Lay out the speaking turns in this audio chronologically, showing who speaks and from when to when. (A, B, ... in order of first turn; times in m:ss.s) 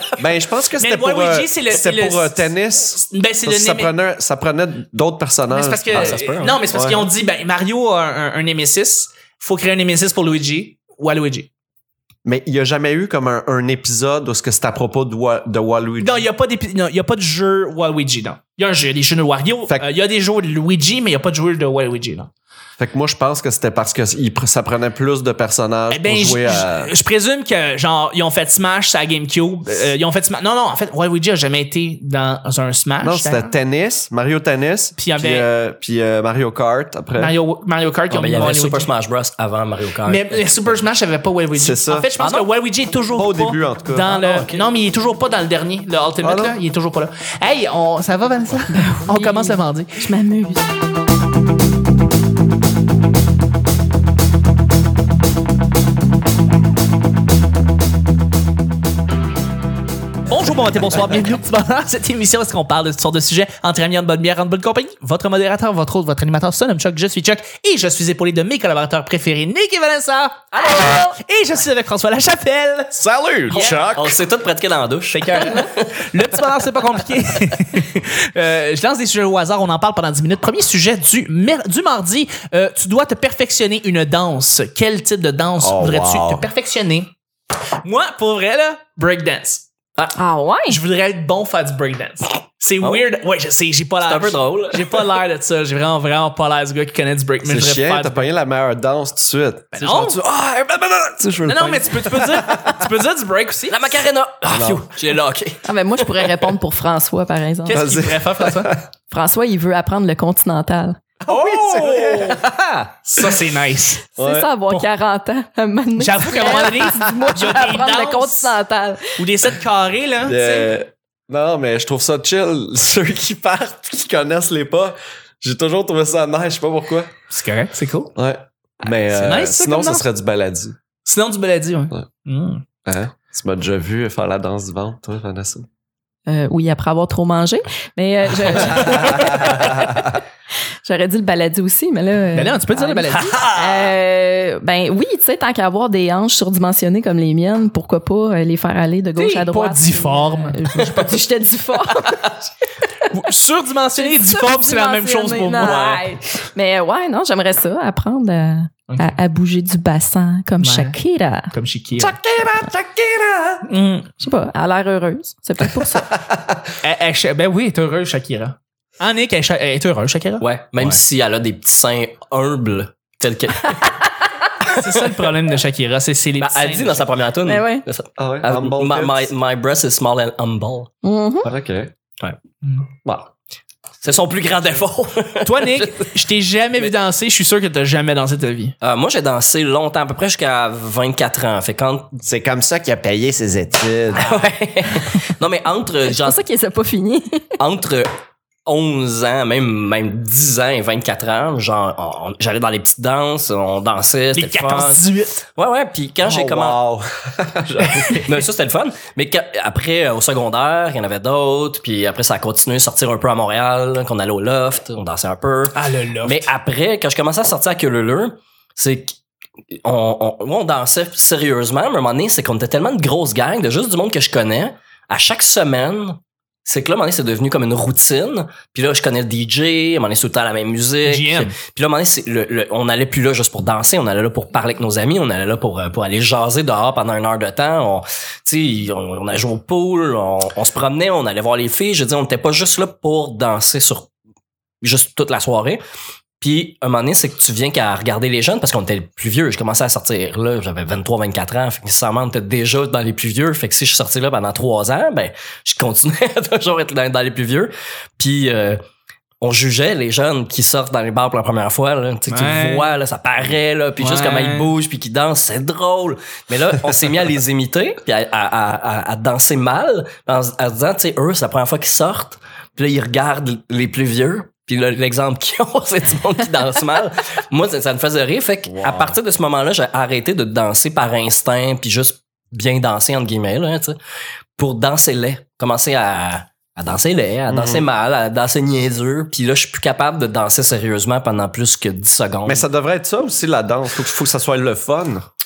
0:00.2-0:06.2 A
0:00.8-0:02.5 B
0:03.0-0:03.9 B
0:05.5-0:11.5 B
0:05.9-0:06.6 C
0:06.7-0:07.1 A
0:12.2-0:16.2 A
0:16.0-0:22.3 B
0:22.8-0:26.9 A
0:25.9-0:33.5 B
0:33.0-0:37.3 A
0:35.0-0:35.4 B
0:37.2-0:38.9 B
0:38.1-0:40.7 C
0:40.0-0:50.0 B
0:41.5-0:42.1 A
0:42.2-0:42.5 C
0:43.1-0:44.4 A
0:44.2-0:44.5 C
0:46.2-0:46.6 A
0:48.7-0:50.7 D
1:00.3-1:13.8 B
1:10.5-1:10.9 C
1:10.6-1:11.1 D
1:12.9-1:14.2 A
1:13.5-1:16.1 C
1:15.1-1:27.1 B
1:25.6-1:26.5 A
1:27.8-1:29.6 B
1:30.1-1:30.8 D
1:30.7-1:38.2 B
1:34.0-1:35.0 C
1:37.4-1:42.8 A
1:39.7-1:40.2 B
1:41.4-1:43.9 B
1:43.7-1:46.3 C
1:44.5-1:44.8 A
1:45.6-1:47.9 D
1:47.6-1:48.7 B
1:47.7-1:48.9 A
1:49.1-1:51.0 D
1:51.2-1:53.4 A
1:51.3-1:52.4 B
1:53.1-1:54.1 B
1:54.2-1:59.2 D
1:54.2-1:54.5 A
1:56.0-1:58.6 B
1:59.2-2:00.7 B
2:00.2-2:07.1 A
2:07.3-2:08.1 B
2:08.1-2:10.8 A
2:09.1-2:10.0 B
2:11.0-2:12.6 B
2:12.8-2:15.7 A
2:16.3-2:20.2 D
2:19.3-2:19.6 A
2:20.8-2:32.5 D
2:22.3-2:23.4 B
2:23.2-2:23.6 C
2:29.1-2:31.1 B
2:33.1-2:36.0 B
2:34.0-2:41.5 D
2:38.9-2:39.2 B
2:40.6-2:41.0 B
2:41.5-2:42.2 B
2:42.0-2:43.6 A
2:43.6-2:44.1 B
2:44.2-2:46.2 D
2:46.1-2:46.7 A
2:46.8-2:50.9 B
2:50.4-2:54.0 C
2:54.6-2:57.0 B
2:56.4-3:00.9 C
2:57.4-2:57.8 D
2:58.2-2:59.3 A
3:01.0-3:01.5 D
3:01.4-3:01.9 A
3:04.0-3:06.1 C
3:05.4-3:08.8 B
3:08.8-3:12.2 C
3:12.2-3:14.4 A
3:14.1-3:16.4 C
3:16.1-3:17.5 D
3:17.6-3:18.1 C
3:18.6-3:26.8 C
3:24.3-3:25.4 B
3:26.2-3:28.2 A
3:27.9-3:28.2 B
3:28.1-3:39.2 C
3:35.7-3:36.5 B
3:39.7-4:04.1 C
3:51.0-3:51.5 B
4:04.8-4:05.8 C
4:06.4-4:18.8 C
4:19.4-4:44.0 C
4:22.3-4:22.9 B
4:24.0-4:24.7 B
4:38.6-4:39.2 A
4:44.6-4:52.6 C
4:47.5-4:47.8 A
4:52.4-4:55.2 A